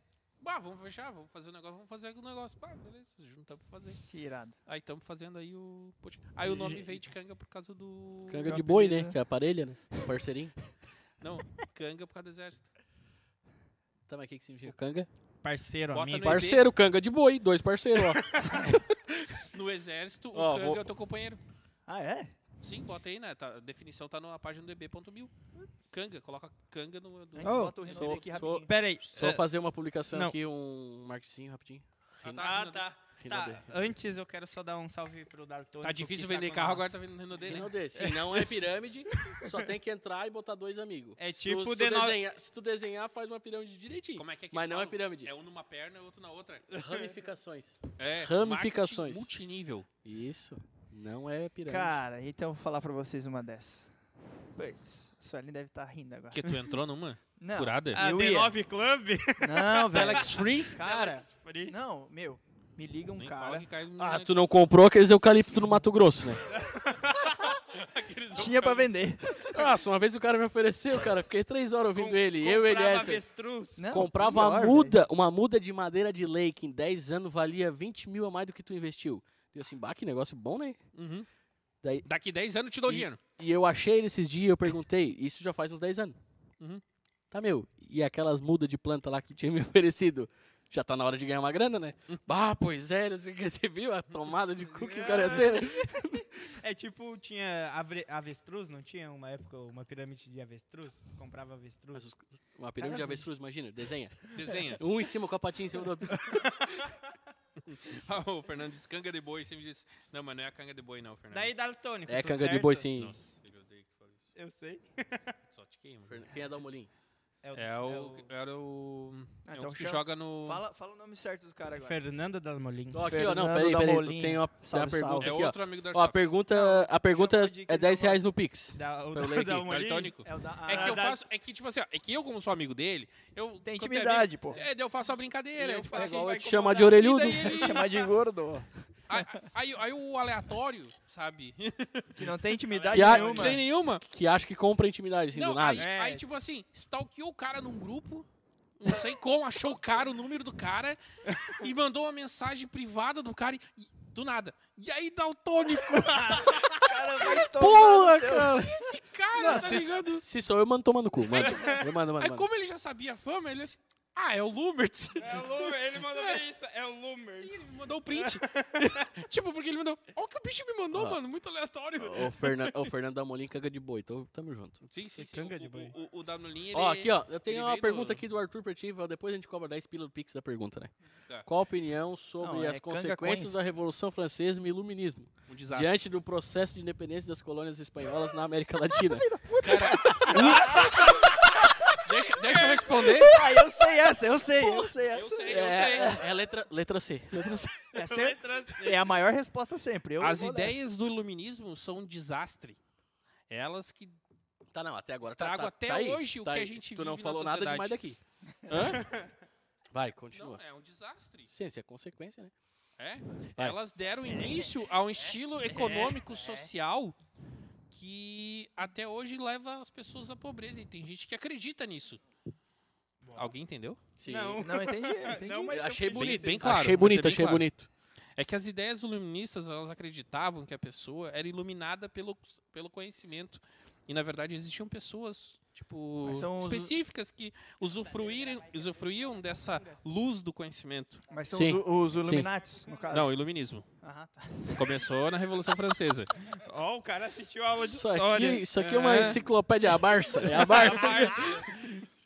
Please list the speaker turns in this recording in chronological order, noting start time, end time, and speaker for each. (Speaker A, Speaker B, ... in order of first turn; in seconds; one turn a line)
Speaker A: 0.4-4.0
Speaker B: 4.0-4.6
Speaker A: 4.7-8.7
Speaker C: 8.3-10.6
Speaker B: 8.4-9.2
Speaker A: 11.2-12.7
Speaker C: 14.1-15.1
Speaker D: 15.4-16.4
Speaker A: 15.9-16.6
Speaker C: 16.2-19.3
Speaker D: 18.0-18.7
Speaker A: 19.5-21.4
Speaker C: 20.3-20.9
Speaker B: 21.9-22.3
Speaker A: 22.6-25.3
Speaker A: 25.9-28.0
Speaker B: 27.3-29.1
Speaker D: 27.4-29.4
Speaker C: 27.9-31.8
Speaker A: 32.2-32.9
Speaker D: 32.4-37.0
Speaker C: 33.2-33.8
Speaker A: 35.8-37.7
Speaker C: 37.4-45.3
Speaker D: 37.9-38.5
Speaker D: 39.1-39.5
Speaker D: 41.2-42.2
Speaker A: 44.1-46.7
Speaker C: 46.7-49.3
Speaker D: 46.8-47.1
Speaker A: 48.0-49.9
Speaker C: 50.0-52.0
Speaker B: 51.6-53.9
Speaker B: 54.5-56.4
Speaker A: 56.3-58.0
Speaker B: 57.4-58.6
Speaker D: 57.9-61.8
Speaker B: 59.4-63.6
Speaker A: 59.9-60.8
Speaker A: 63.2-64.6
Speaker C: 64.0-66.4
Speaker D: 66.5-67.6
Speaker A: 67.7-68.9
Speaker B: 68.3-69.5
Speaker C: 69.5-73.2
Speaker D: 71.9-73.8
Speaker B: 73.8-75.0
Speaker C: 73.9-80.8
Speaker A: 80.9-81.3
Speaker A: 82.0-83.2
Speaker C: 82.9-86.2
Speaker C: 87.3-96.5
Speaker D: 94.6-96.0
Speaker D: 96.5-102.0
Speaker C: 101.9-106.7
Speaker D: 102.8-103.2
Speaker A: 104.3-104.8
Speaker D: 106.1-107.1
Speaker A: 107.6-111.5
Speaker D: 111.3-112.9
Speaker C: 112.1-113.2
Speaker A: 113.0-114.2
Speaker D: 114.3-115.3
Speaker A: 115.5-116.2
Speaker C: 116.1-116.9
Speaker D: 117.4-118.3
Speaker A: 117.5-120.6
Speaker B: 119.5-122.0
Speaker D: 121.7-123.0
Speaker C: 122.9-129.7
Speaker B: 123.0-125.4
Speaker A: 125.2-126.3
Speaker B: 126.5-128.2
Speaker D: 128.7-130.1
Speaker A: 129.6-136.3
Speaker B: 130.2-131.0
Speaker D: 130.7-131.2
Speaker B: 133.6-134.6
Speaker D: 135.6-137.5
Speaker C: 135.9-137.7
Speaker A: 136.9-138.0
Speaker B: 137.4-138.7
Speaker A: 139.1-142.3
Speaker B: 142.1-143.6
Speaker D: 142.7-143.6
Speaker C: 142.9-145.9
Speaker A: 142.9-144.0
Speaker A: 145.3-148.3
Speaker D: 145.8-146.2
Speaker A: 148.8-157.4
Speaker D: 155.9-156.7
Speaker B: 156.4-158.7
Speaker C: 157.2-162.4
Speaker A: 158.5-160.2
Speaker A: 161.3-166.4
Speaker D: 161.4-161.8
Speaker D: 165.2-167.6
Speaker A: 167.3-172.9
Speaker D: 168.1-169.1
Speaker C: 170.9-171.2
Speaker C: 172.0-174.8
Speaker A: 174.8-178.2
Speaker D: 175.2-175.9
Speaker C: 176.7-180.9
Speaker C: 181.4-189.3
Speaker B: 182.4-183.7
Speaker A: 185.5-186.0
Speaker B: 189.0-191.9
Speaker A: 189.6-191.3
Speaker A: 192.0-193.4
Speaker D: 192.4-193.2
Speaker B: 193.0-196.1
Speaker C: 194.6-194.9
Speaker A: 195.1-196.2
Speaker C: 195.4-197.9
Speaker B: 197.9-200.8
Speaker D: 197.9-199.1
Speaker A: 200.2-202.8
Speaker A: 203.5-204.2
Speaker C: 204.7-208.2
Speaker A: 205.2-208.0
Speaker A: 208.7-209.1
Speaker D: 209.0-209.3
Speaker C: 209.9-210.6
Speaker A: 210.3-211.5
Speaker C: 211.5-212.5
Speaker A: 213.0-217.2
Speaker B: 214.2-214.7
Speaker D: 215.7-216.2
Speaker B: 216.3-216.7
Speaker A: 217.9-222.2
Speaker D: 223.2-223.5
Speaker A: 223.3-224.0
Speaker C: 224.2-224.7
Speaker D: 224.2-227.0
Speaker B: 224.6-225.9
Speaker C: 225.7-227.9
Speaker A: 226.1-227.7
Speaker A: 228.3-241.2
Speaker B: 236.2-236.9
Speaker D: 237.9-240.0
Speaker B: 241.3-243.4
Speaker C: 241.5-242.5
Speaker A: 243.1-243.9
Speaker B: 244.0-245.1
Speaker A: 244.7-246.3
Speaker D: 246.6-249.4
Speaker C: 247.8-251.7
Speaker A: 248.8-249.4
Speaker D: 250.4-251.7
Speaker A: 250.7-251.7